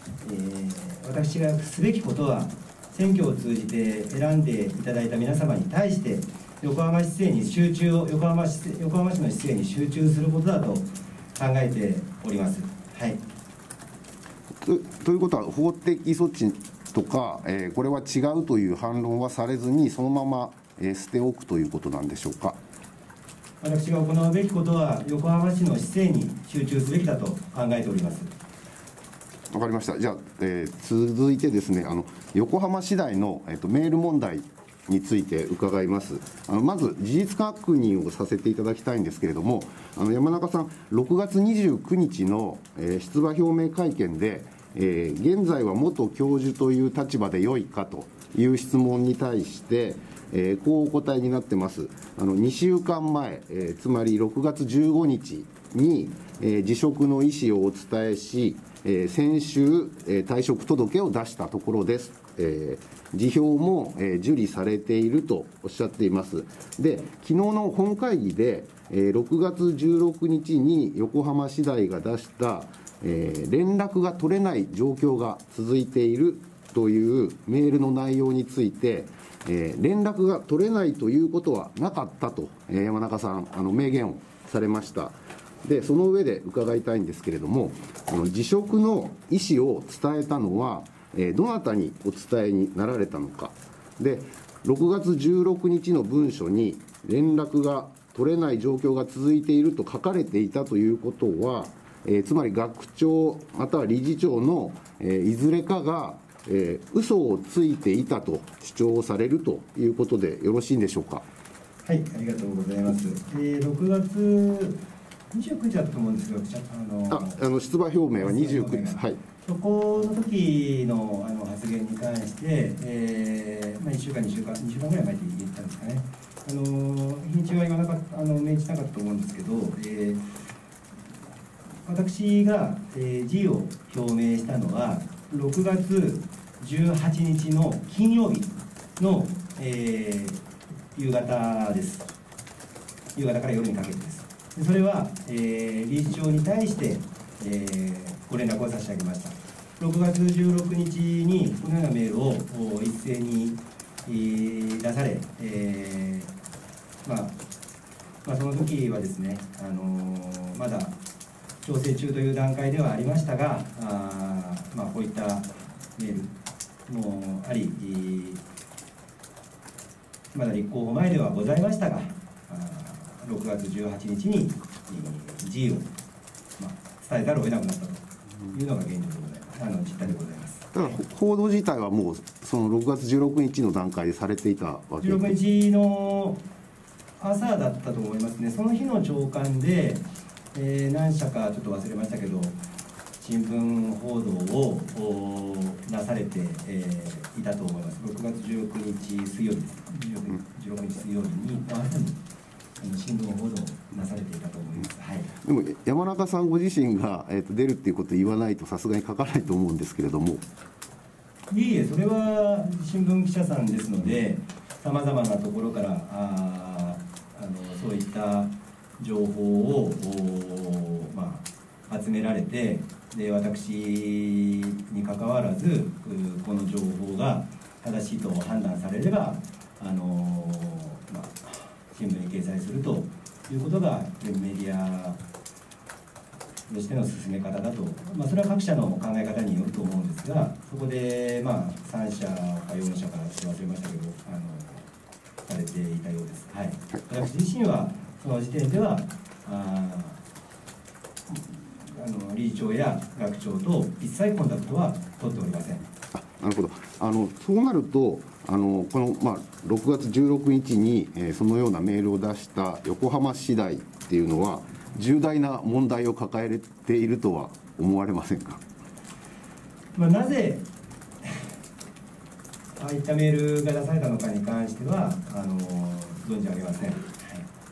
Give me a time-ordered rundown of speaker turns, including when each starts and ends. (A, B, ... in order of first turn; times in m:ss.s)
0:00.2-0:13.2 A
0:14.6-0:22.6 B
0:23.6-0:28.3 A
0:29.5-1:51.2 B
1:51.8-1:54.8 A
1:55.3-1:57.4 A
1:57.1-1:59.2 B
1:58.2-2:10.2 A
2:11.8-2:20.4 A
2:21.0-2:22.1 A
2:23.2-2:36.3 A
2:37.0-2:37.4 A
2:38.2-2:41.0 A
2:41.6-2:46.3 A
2:46.9-2:48.4 A
2:50.3-2:55.9 A
2:56.6-3:01.0 A
3:00.7-3:05.4 B
3:05.0-3:06.4 A
3:07.2-3:12.6 A
3:13.2-3:22.2 A
3:22.8-3:25.3 A
3:25.4-3:30.4 B
3:31.5-3:55.2 A
3:56.7-4:04.9 A
4:05.5-4:10.2 A
4:11.3-4:15.9 A
4:16.1-4:28.6 B
4:30.0-4:30.6 A
4:32.8-4:37.4 A